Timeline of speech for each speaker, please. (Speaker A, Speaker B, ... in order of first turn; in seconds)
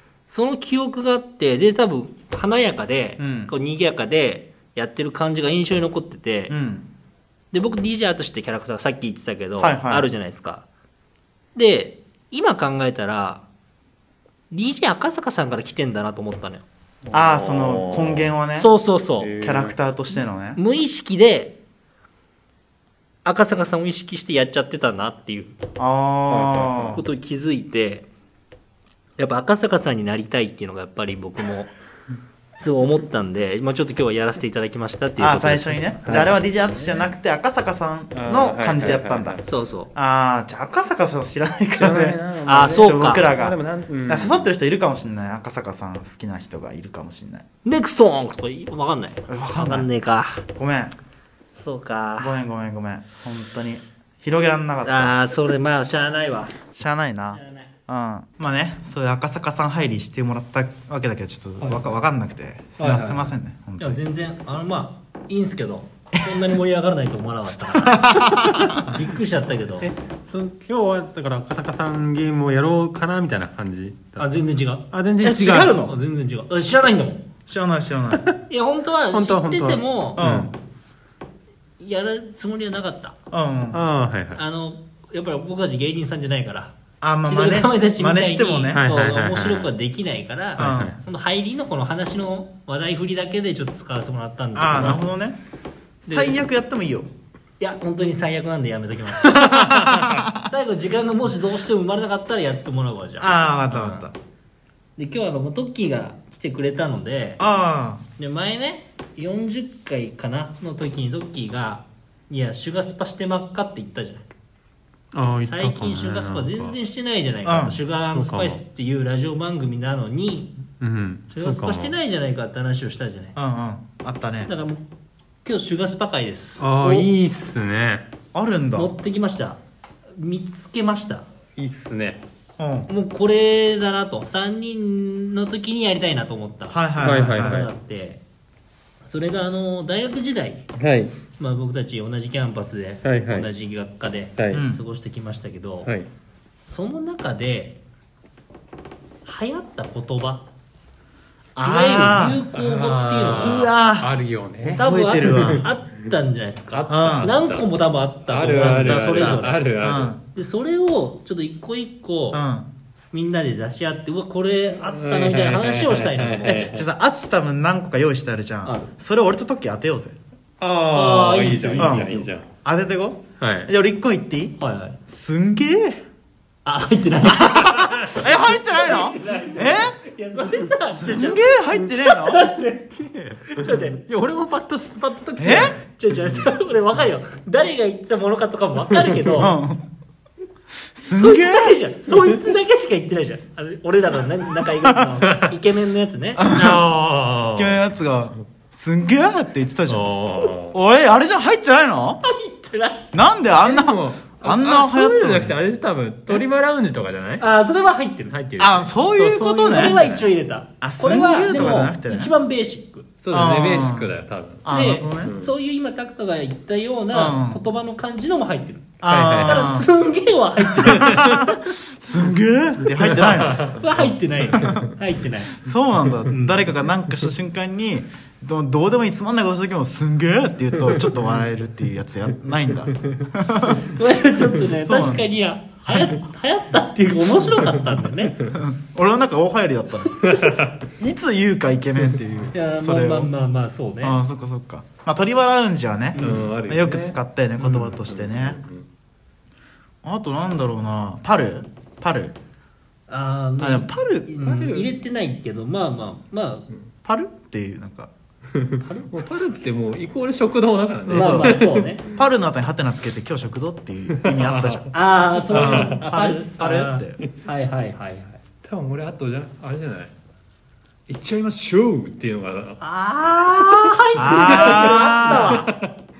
Speaker A: 0.3-6.5, 7.5-10.7, 11.5-13.4, 14.5-16.6, 18.5-19.3, 20.6-21.6, 23.2-25.6, 26.9-28.1, 29.2-31.7, 32.6-36.3, 39.4-39.9, 42.5-43.3, 47.6-50.4, 51.5-52.4, 54.8-56.5, 57.3-57.7, 63.8-69.9, 74.2-74.8, 75.8-77.2, 78.5-80.2, 81.8-83.2, 84.3-95.0, 96.0-96.4, 97.6-104.1, 105.0-107.4, 108.2-114.2, 115.5-120.5, 121.3-123.3, 124.5-124.8, 125.4-126.7, 128.7-129.6, 130.1-131.2, 132.9-138.2, 139.0-140.6, 141.4-145.9, 146.7-147.8, 149.2-150.4, 151.6-153.7, 154.8-159.7, 160.3-162.4, 163.1-166.7, 168.6-168.9, 170.9-172.2, 174.6-175.0, 176.6-182.9, 183.6-184.0, 185.8-189.6, 191.1-196.5, 202.2-203.1, 207.4-213.1, 214.7-221.5, 223.7-225.6, 226.3-226.7, 233.7-238.4, 242.5-244.2, 246.2-246.5, 253.1-256.7, 258.8-259.1, 261.1-262.1, 264.9-268.4, 272.8-275.7
Speaker B: 3.2-3.5, 6.5-6.9, 9.6-10.1, 17.1-18.7, 19.4-20.6, 25.8-27.0, 35.2-47.4, 49.3-49.9, 50.5-50.9, 52.2-55.1, 56.7-64.0, 67.8-68.8, 75.2-76.0, 77.5-78.2, 80.2-80.5, 83.3-83.8, 87.0-88.8, 90.6-91.0, 94.5-95.4, 96.0-97.1, 99.7-100.5, 103.2-104.1, 107.4-108.0, 117.4-117.8, 123.3-124.5, 126.8-127.1, 128.3-128.9, 132.6-132.9, 136.7-137.7, 144.5-144.8, 151.6-152.4, 153.4-155.7, 156.9-157.3, 158.6-160.2, 162.3-162.7, 166.4-170.2, 171.8-176.0, 177.3-180.0, 181.0-182.5, 185.4-185.7, 189.3-189.8, 190.9-191.8, 196.4-196.8, 197.5-202.2, 203.1-205.6, 208.6-210.2, 210.8-212.3, 213.3-214.1, 214.6-215.3, 217.1-217.6, 219.0-219.9, 220.8-223.8, 224.5-224.9, 225.5-233.8, 234.8-235.3, 238.5-243.3, 244.0-248.6, 250.0-252.3, 253.6-254.3, 257.0-258.1, 261.1-264.9, 265.5-267.2, 274.2-275.6
Speaker C: 17.0-18.3, 19.2-19.8, 26.3-27.0, 36.0-37.0, 38.1-39.4, 41.8-44.5, 61.6-61.9, 62.8-63.3, 69.8-74.3, 74.9-75.8, 79.1-80.5, 83.7-84.4, 88.7-89.7, 90.6-90.9, 99.4-100.2, 115.1-116.8, 117.9-118.6, 120.8-122.0, 126.6-128.0, 131.6-132.2, 137.0-137.7, 140.8-141.1, 143.0-143.5, 144.4-144.7, 152.5-155.6, 156.7-157.7, 158.3-160.1, 164.7-166.9, 170.6-172.5, 173.4-173.7, 182.9-185.8, 195.2-195.5, 196.4-197.8, 199.9-200.8, 203.6-207.4, 208.3-210.2, 213.2-214.7, 215.2-215.5, 219.1-219.8, 221.0-221.4, 222.9-223.8, 240.2-240.7, 246.2-248.8, 254.4-254.9, 258.5-261.9, 264.1-264.9, 265.5-266.1, 268.6-270.1, 271.1-272.8, 274.2-275.9